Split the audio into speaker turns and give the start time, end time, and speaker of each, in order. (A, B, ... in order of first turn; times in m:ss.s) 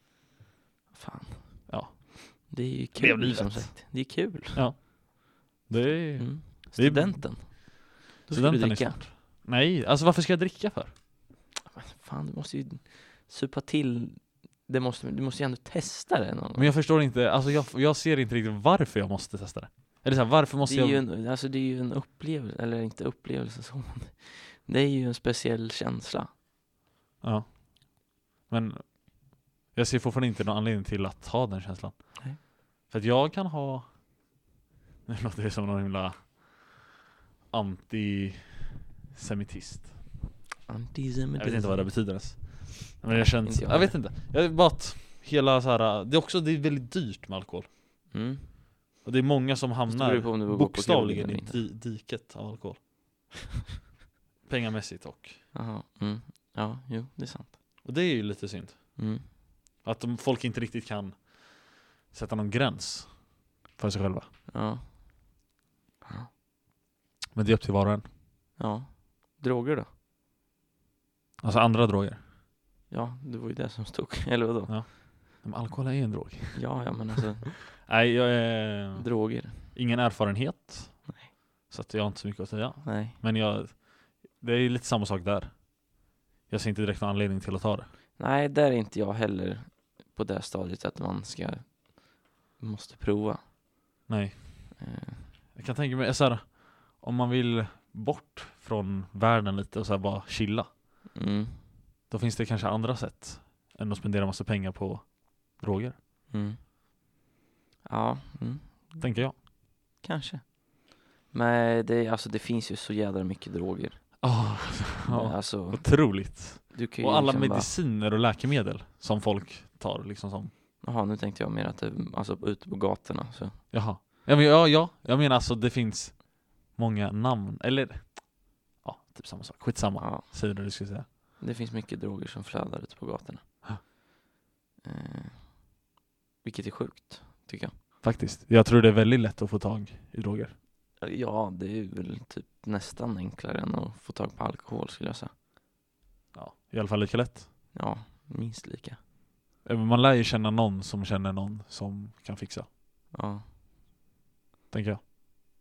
0:00.9-0:02.0 A
0:01.7-0:07.6 B
0:02.5-0:04.6 A
0:06.2-0:09.0 A
0:08.3-0:10.9 B
0:11.6-0:16.8 A
0:16.5-0:21.0 B
0:20.6-0:26.3 A
0:27.2-0:33.8 B
0:35.0-0:36.8 B
0:37.5-0:40.0 B
0:40.7-0:42.4 A
0:41.4-0:47.7 B
0:43.1-0:44.0 A
0:48.1-0:48.5 A
0:49.0-0:52.9 B
0:49.9-0:51.6 A
0:54.4-0:55.4 B
0:55.5-0:57.6 A
0:57.8-0:59.0 B
0:59.0-0:59.3 A
0:59.8-1:04.3 B
1:04.5-1:05.3 A
1:06.0-1:06.3 A
1:07.3-1:08.0 B
1:08.6-1:09.9 A
1:11.4-1:12.2 B
1:12.9-1:14.8 A
1:14.7-1:16.9 B
1:16.5-1:17.6 A
1:17.7-1:25.8 B
1:19.0-1:19.7 A
1:22.8-1:23.2 A
1:26.5-1:27.9 B
1:28.2-1:33.4 A
1:34.1-1:34.8 B
1:34.8-1:35.3 A
1:35.5-1:40.7 B
1:41.1-1:41.6 A
1:42.1-1:46.0 B
1:46.3-1:46.6 A
1:47.8-1:49.0 A
1:49.0-1:49.4 B
1:50.0-1:54.2 A
1:54.2-2:00.5 B
1:55.1-1:57.7 A
2:00.8-2:03.6 A
2:03.7-2:11.0 B
2:10.0-2:10.2 A
2:11.4-2:13.9 A
2:14.8-2:15.7 A
2:16.4-2:17.7 A
2:18.0-2:20.5 B
2:21.0-2:25.3 A
2:26.3-2:27.5 B
2:27.7-2:29.0 A
2:29.6-2:32.7 B
2:33.1-2:33.4 A
2:34.7-2:35.0 B